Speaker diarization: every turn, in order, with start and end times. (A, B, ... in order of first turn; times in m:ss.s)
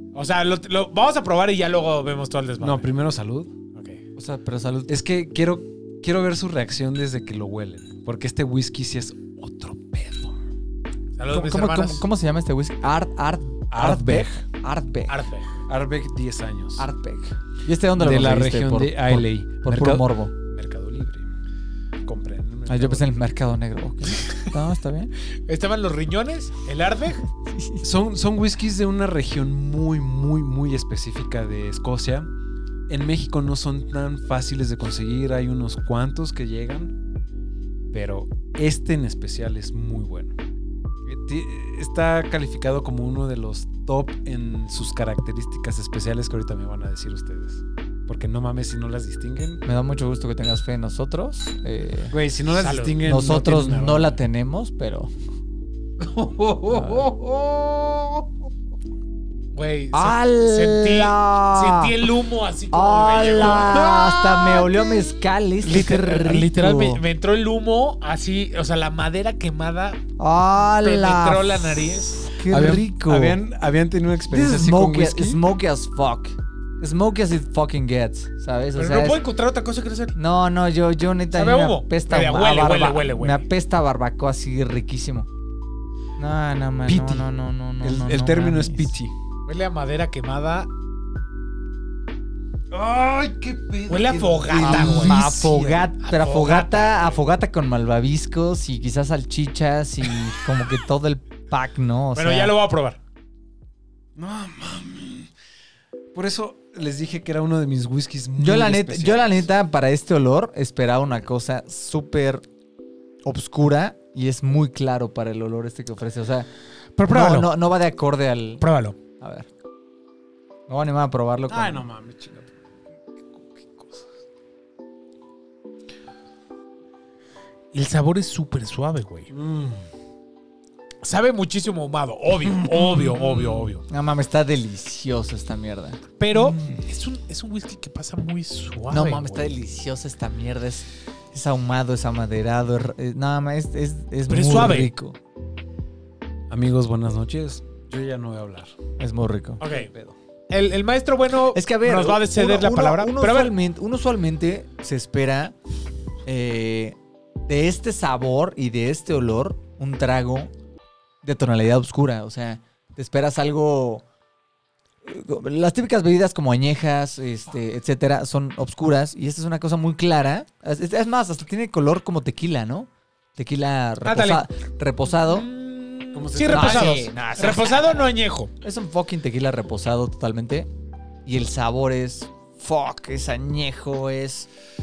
0:00.1-0:02.9 A
0:02.6-0:03.5 B
0:03.8-0:04.0 A
0:04.2-0:05.0 C
0:04.9-0:10.4 B
0:11.2-0:12.1 A
0:11.3-0:15.2 C
0:13.7-0:14.4 B
0:15.1-0:15.5 A
0:15.7-0:16.9 B
0:16.8-0:20.3 C
0:18.0-0:21.3 B
0:22.0-0:23.2 B
0:22.7-0:25.1 C
0:24.1-0:24.4 A
0:25.5-0:27.3 A
0:27.5-0:27.8 C
0:27.8-0:32.3 B
0:32.9-0:37.0 B
0:37.9-0:40.4 B
0:41.1-0:49.6 B
0:49.6-0:52.2 C
0:52.1-0:54.1 B
0:52.6-0:53.0 A
0:53.0-0:55.1 C
0:56.0-0:58.2 B
0:56.7-0:57.0 C
0:59.5-1:03.9 A
0:59.9-1:02.0 C
1:02.7-1:07.0 C
1:03.6-1:04.6 B
1:05.6-1:10.0 A
1:10.2-1:13.4 C
1:10.7-1:12.3 A
1:12.5-1:15.4 B
1:14.3-1:19.2 C
1:18.8-1:20.2 A
1:20.2-1:25.3 C
1:21.3-1:23.4 A
1:26.2-1:28.9 C
1:26.9-1:27.3 B
1:27.8-1:29.1 B
1:29.5-1:30.7 A
1:32.7-1:35.9 B
1:33.9-1:35.4 A
1:34.6-1:42.5 C
1:36.0-1:37.2 A
1:42.2-1:43.0 A
1:44.2-1:45.3 B
1:46.1-1:49.5 B
1:48.4-1:52.4 C
1:53.2-1:56.5 C
1:57.0-1:57.5 A
1:57.1-1:58.6 C
1:58.6-1:59.0 A
1:59.2-1:59.5 C
2:00.7-2:01.8 C
2:01.5-2:02.5 B
2:03.5-2:04.1 B
2:07.7-2:09.3 A
2:09.3-2:09.9 B
2:11.0-2:13.8 A
2:12.4-2:13.7 B
2:13.9-2:16.0 C
2:16.2-2:19.6 A
2:18.9-2:25.2 C
2:24.3-2:24.9 A
2:26.5-2:28.8 B
2:29.0-2:29.6 C
2:29.6-2:29.9 A
2:29.6-2:30.2 B
2:30.5-2:33.5 A
2:31.5-2:35.6 C
2:36.3-2:40.5 C
2:41.2-2:44.0 C
2:45.0-2:55.5 C
2:54.0-2:54.5 A
2:55.1-2:58.5 A
2:56.1-2:57.1 B
2:56.5-2:58.0 C
2:58.6-3:00.7 C
3:01.3-3:04.5 C